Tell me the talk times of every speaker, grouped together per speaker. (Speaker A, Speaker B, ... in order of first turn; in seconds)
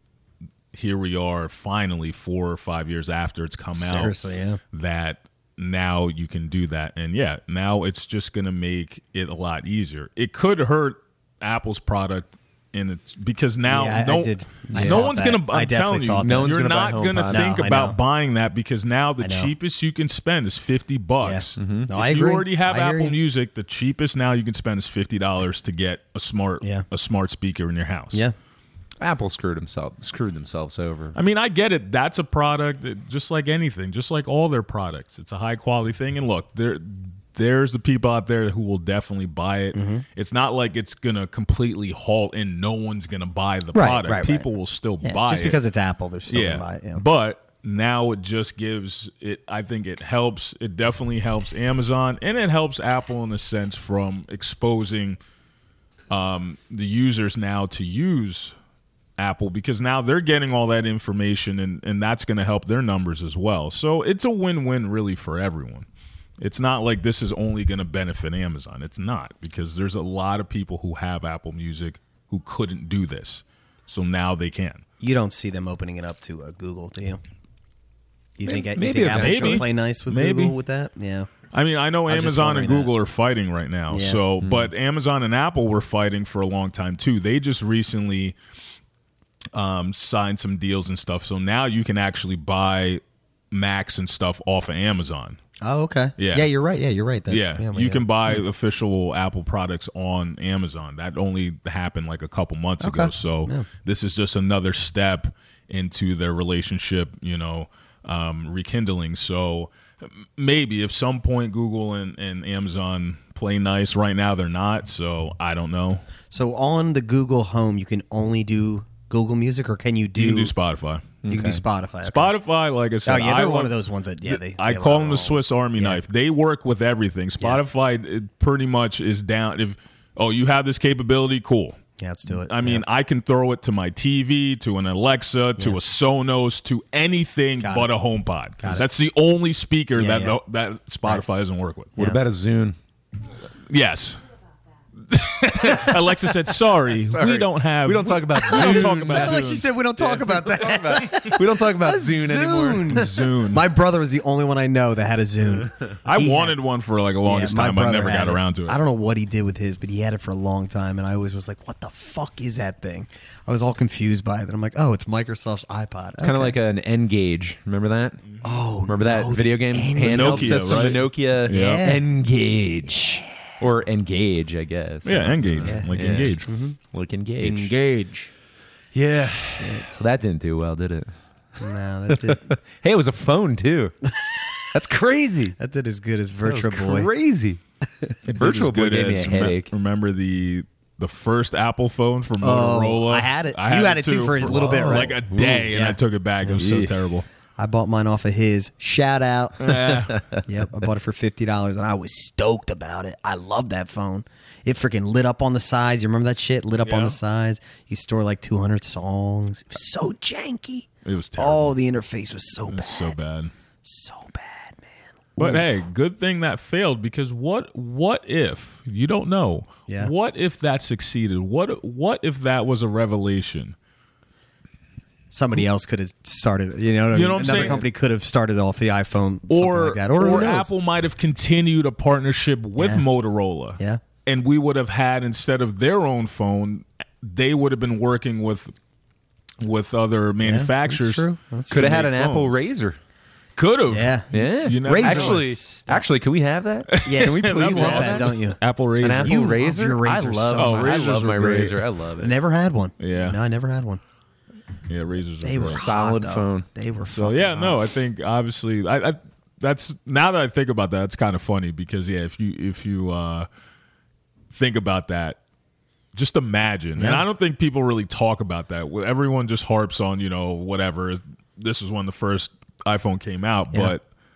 Speaker A: 0.7-4.2, 4.7-28.2, 31.1-45.6, 46.3-55.2, 56.1-58.5, 59.2-65.8, 66.4-74.8, 79.2-80.5, 81.5-88.3, 89.5-93.0, 93.5-95.4, 96.2-96.5, 97.3-116.0, 120.2-121.2, 122.0-123.7, 124.2-131.8, 132.4-141.9, 143.7-144.2, 145.1-149.7, 152.9-153.6, 156.0-158.8, 170.0-171.8, 175.0-176.5, 188.2-197.2, 199.6-200.3, 206.8-207.2, 211.0-211.8, 212.7-213.5, 215.4-223.7, 227.1-227.8, 229.5-238.7, 239.6-242.6, 243.6-245.5, 246.9-249.5, 250.5-251.8, 253.0-253.4, 254.9-255.8, 257.1-263.5, 264.5-265.4, 266.1-274.0
Speaker B: 3.8-4.6, 13.7-16.6, 17.3-18.0, 19.2-19.5, 21.2-23.1, 39.7-40.0, 43.7-44.5, 45.0-47.0, 75.0-77.2, 78.4-81.3, 82.1-82.9, 83.9-84.2, 95.6-98.4, 102.8-103.7, 116.3-120.5, 121.3-122.3, 123.0-126.0, 132.0-132.8, 137.6-137.9, 138.6-138.9, 139.9-140.4, 148.5-156.5, 157.2-166.6, 168.4-170.9, 171.5-172.0, 175.6-176.8, 177.4-178.3, 179.6-180.0, 181.6-182.5, 185.6-187.1, 192.4-196.0, 197.6-213.2, 213.8-215.6, 225.3-230.7, 232.8-233.0, 240.4-242.0, 243.9-244.3, 244.8-246.0, 247.0-248.6, 249.2-250.8, 252.2-254.0, 255.4-257.8, 267.0-267.2
Speaker C: 14.7-15.1, 16.2-17.5, 21.6-21.9, 29.0-31.2, 78.4-79.6, 84.4-84.7, 121.2-121.6, 142.0-142.8, 146.9-153.1, 166.2-168.2, 168.9-176.3, 176.9-177.7, 178.9-181.1, 182.1-185.6, 186.4-187.6, 188.4-189.7, 194.4-195.7, 196.5-196.9, 200.1-200.4, 227.4-227.8, 241.7-243.0, 244.3-248.3, 249.0-252.3, 255.7-256.6